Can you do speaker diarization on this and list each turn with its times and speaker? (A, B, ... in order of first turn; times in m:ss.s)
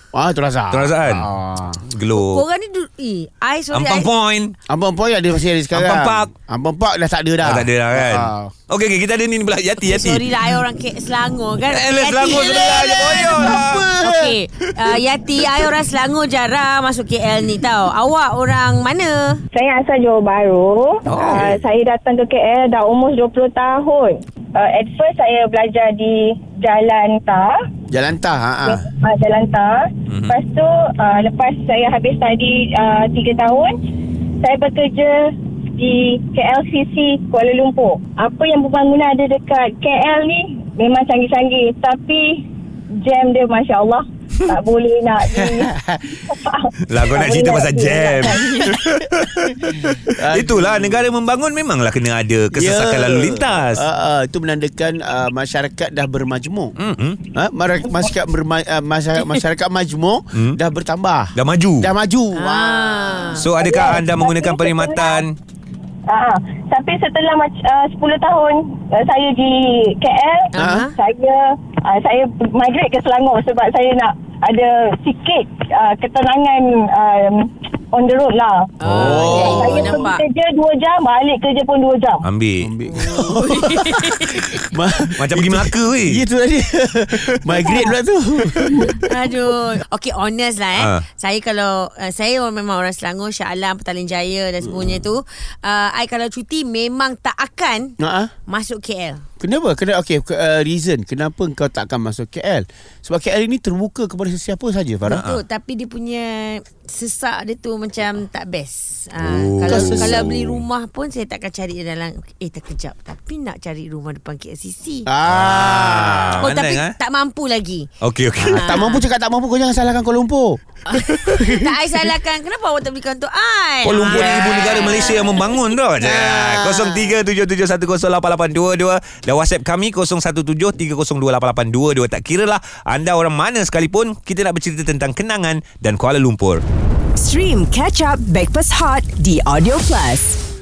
0:00.1-0:01.8 A
0:00.7-0:01.3 B
0:01.9-0:02.4 B
0:02.1-0:04.1 C
0:03.7-0:04.5 B
0:04.7-0:08.5 A
0:05.7-0:06.3 B
0:07.4-0:10.2 B
0:09.8-0:13.2 C
0:11.6-0:13.8 B
0:12.4-0:14.4 A
0:14.0-0:19.4 C
0:19.5-0:27.5 D
0:21.1-0:21.6 B
0:27.9-0:28.9 A
0:28.7-0:33.8 D
0:30.1-0:30.4 B
0:34.4-0:35.2 D
0:35.8-0:42.3 D
0:43.0-0:45.7 D
0:45.4-0:46.2 A
0:46.3-0:48.5 D
0:46.9-0:53.8 B
0:50.1-0:51.1 A
0:52.5-0:56.7 A
0:56.8-0:57.2 B
0:57.3-1:03.4 A
1:01.4-1:01.9 B
1:02.4-1:03.5 C
1:03.4-1:05.4 B
1:03.6-1:05.2 D
1:06.1-1:18.6 D
1:10.5-1:10.9 C
1:10.6-1:10.9 A
1:18.8-1:19.4 B
1:18.8-1:20.2 C
1:18.9-1:20.0 A
1:19.4-1:22.2 D
1:22.2-1:22.7 B
1:22.6-1:29.1 A
1:22.9-1:24.3 C
1:25.2-1:26.2 B
1:28.7-1:29.0 D
1:29.0-1:38.0 C
1:30.8-1:31.0 B
1:34.6-1:34.9 A
1:38.0-1:38.3 A
1:38.5-1:39.2 C
1:39.4-1:45.2 A
1:45.1-1:55.1 C
1:45.1-1:45.4 B
1:49.2-1:50.6 B
1:49.7-1:50.3 A
1:55.1-1:56.5 A
1:55.3-1:56.9 B
1:56.4-1:57.9 C
1:58.0-1:58.7 B
1:58.4-2:01.7 A
1:58.5-1:59.0 C
2:00.9-2:05.5 C
2:03.8-2:16.6 B
2:04.0-2:05.4 A
2:06.0-2:06.8 A
2:17.2-2:20.4 E